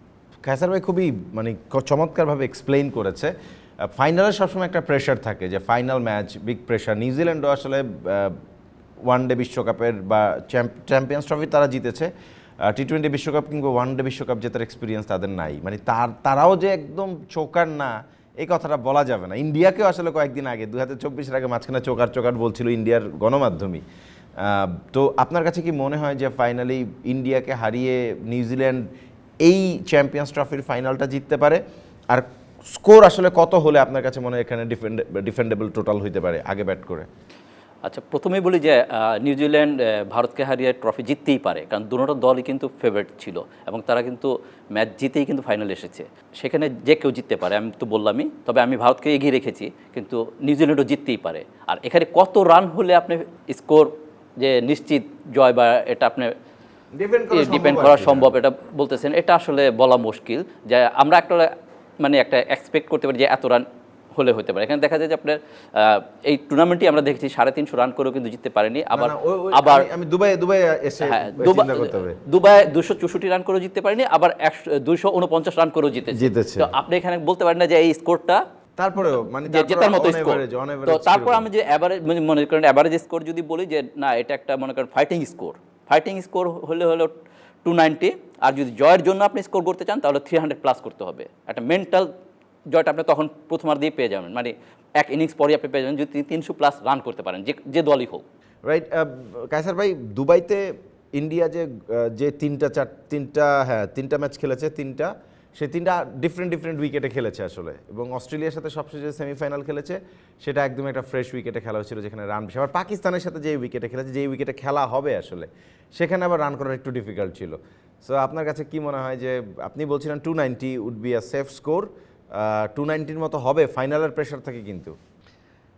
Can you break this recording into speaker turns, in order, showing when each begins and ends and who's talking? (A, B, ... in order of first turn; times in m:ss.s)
0:00.4-0:08.4 A
0:09.0-0:12.1 A
0:12.6-0:23.8 A
0:24.4-0:28.9 A
0:29.4-0:37.1 A
0:37.8-0:56.3 B
0:56.9-0:58.3 A
0:57.3-1:09.9 B
1:08.9-1:12.2 A
1:11.0-1:18.4 B
1:16.1-1:16.7 A
1:18.8-1:21.5 A
1:19.5-1:32.1 B
1:32.7-1:38.2 B
1:38.6-2:05.0 A